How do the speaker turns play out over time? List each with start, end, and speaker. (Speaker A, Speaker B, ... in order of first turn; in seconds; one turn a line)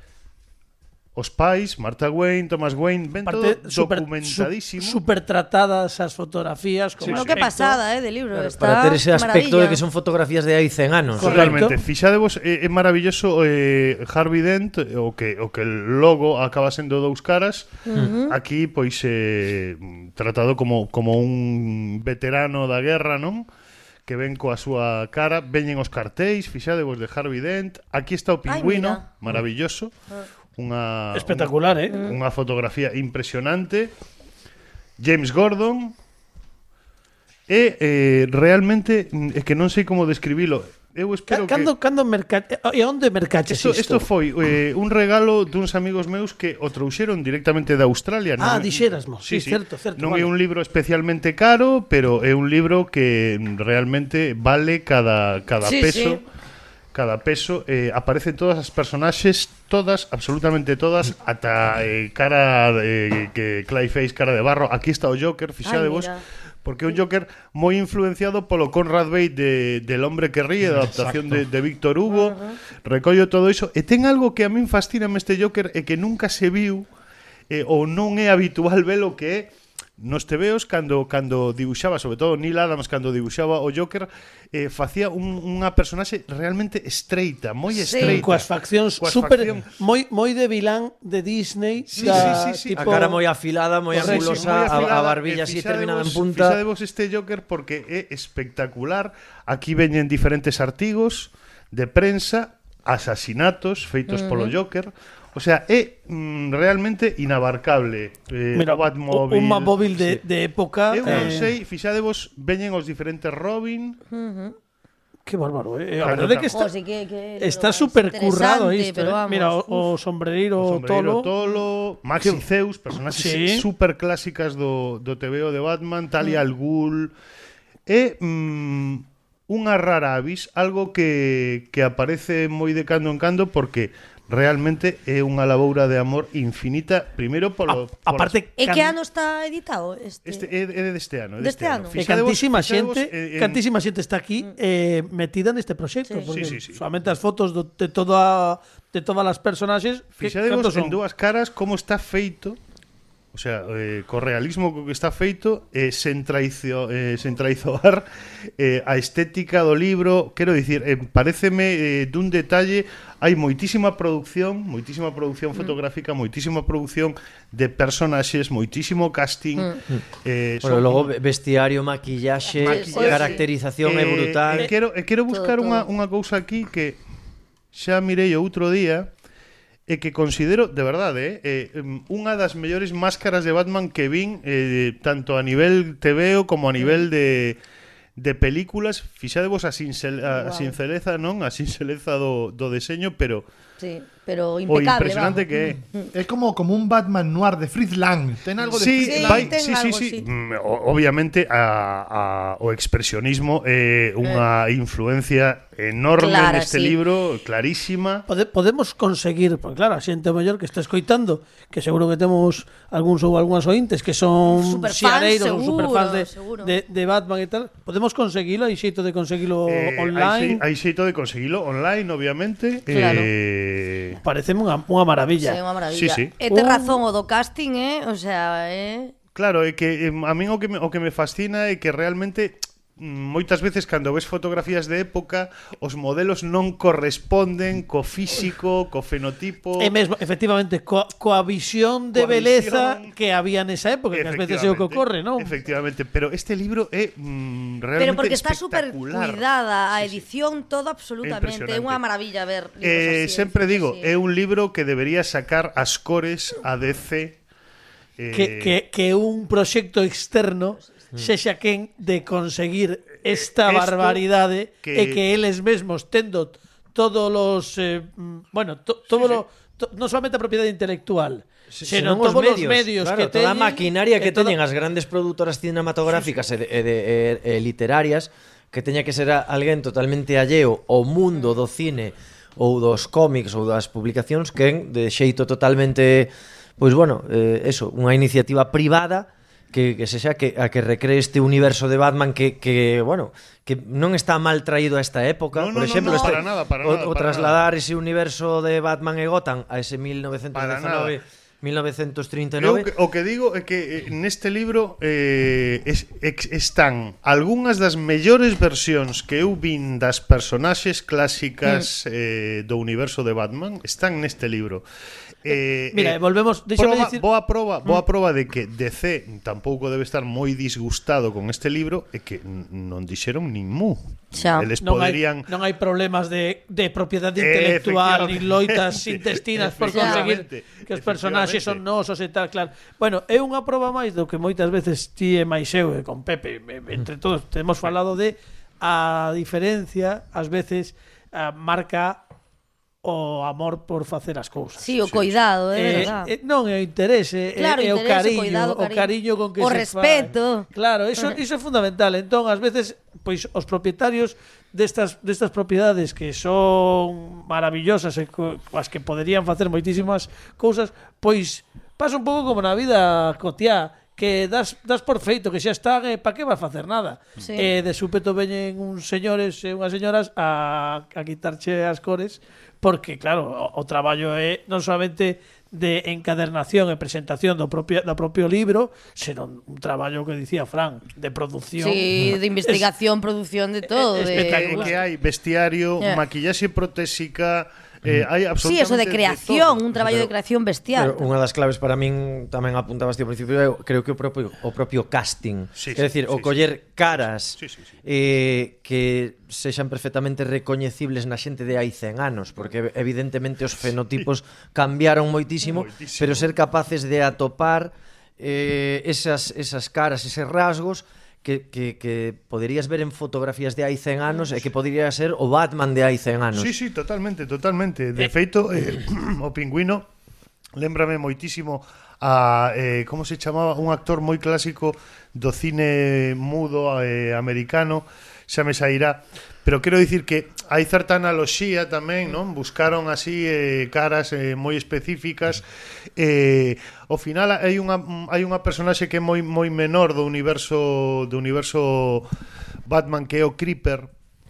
Speaker A: 1.2-5.0
Speaker B: 3.2-7.8
Speaker C: 7.0-7.4
Speaker D: 7.0-9.8
Speaker C: 8.3-11.6
Speaker B: 11.2-11.8
Speaker D: 11.2-11.5
Speaker A: 11.2-23.5
Speaker D: 17.9-18.4
Speaker A: 24.1-29.9
Speaker D: 28.5-29.1
Speaker A: 30.6-33.9
Speaker B: 31.1-32.0
Speaker A: 35.0-36.0
Speaker A: 37.5-41.7
Speaker B: 41.3-44.1
Speaker A: 43.5-56.2
Speaker B: 48.4-50.3
Speaker D: 55.6-56.2
Speaker A: 56.9-76.9
Speaker D: 65.6-66.2
Speaker D: 72.1-72.6
Speaker A: 77.5-89.7
Speaker D: 87.9-88.2
Speaker B: 87.9-93.2
Speaker A: 92.0-93.1
Speaker C: 92.0-96.6
Speaker D: 92.0-92.3
Speaker B: 93.9-94.9
Speaker A: 93.9-109.8
Speaker D: 104.1-104.5
Speaker B: 108.5-111.5
Speaker A: 110.9-114.0
Speaker C: 111.1-111.3
Speaker D: 114.1-114.6
Speaker B: 115.3-116.7
Speaker A: 116.0-116.6
Speaker D: 116.5-119.9
Speaker B: 117.4-121.3
Speaker A: 120.6-127.1
Speaker B: 122.2-122.4
Speaker B: 123.1-123.7
Speaker A: 127.9-138.4
Speaker B: 137.7-139.0
Speaker D: 138.6-140.5
Speaker A: 140.2-143.6
Speaker D: 141.4-142.0
Speaker B: 142.0-151.0
Speaker A: 146.3-146.8
Speaker A: 150.2-152.6
Speaker A: 153.3-158.1
Speaker A: 158.6-171.1
Speaker C: 170.6-174.7
Speaker D: 172.6-173.4
Speaker A: 172.6-177.0
Speaker B: 172.9-173.3
Speaker D: 175.3-175.9
Speaker A: 177.7-179.1
Speaker A: 179.9-187.6
Speaker D: 186.8-187.1
Speaker A: 188.2-193.5
Speaker D: 190.3-190.8
Speaker D: 193.8-196.1
Speaker A: 194.7-195.8
Speaker E: 196.1-199.6
Speaker A: 198.7-208.3
Speaker D: 198.9-200.3
Speaker D: 206.2-207.0
Speaker B: 208.3-220.6
Speaker D: 214.5-216.7
Speaker A: 219.7-224.2
Speaker D: 222.9-223.3
Speaker B: 224.2-225.6
Speaker D: 225.4-229.1
Speaker A: 225.9-226.3
Speaker B: 226.5-227.0
Speaker A: 229.3-239.9
Speaker B: 239.8-245.5
Speaker A: 242.1-243.2
Speaker A: 244.1-250.3
Speaker D: 248.0-254.1
Speaker A: 251.2-252.0
Speaker A: 252.8-257.4
Speaker A: 258.2-258.8
Speaker B: 258.3-274.6
Speaker A: 263.2-264.2
Speaker A: 264.8-265.2
Speaker A: 269.1-269.4
Speaker C: 271.7-302.9
Speaker A: 295.5-297.6
Speaker D: 295.9-296.4
Speaker A: 300.5-301.2
Speaker A: 302.6-314.8
Speaker A: 315.4-316.2
Speaker B: 315.9-317.2
Speaker A: 316.8-325.5
Speaker D: 324.4-324.7
Speaker B: 324.8-342.2
Speaker A: 327.4-331.8
Speaker D: 329.9-330.2
Speaker B: 343.0-344.9
Speaker D: 344.8-346.3
Speaker A: 345.0-345.4
Speaker B: 345.7-382.0
Speaker D: 347.6-351.4
Speaker D: 367.4-367.7
Speaker D: 381.8-384.9
Speaker B: 383.9-385.0
Speaker A: 384.3-390.3
Speaker D: 388.6-391.3
Speaker C: 390.9-416.7
Speaker A: 395.8-396.6
Speaker A: 397.6-397.9
Speaker A: 405.6-406.5
Speaker A: 416.6-420.1
Speaker A: 420.8-435.6
Speaker A: 436.2-442.3
Speaker A: 442.9-444.1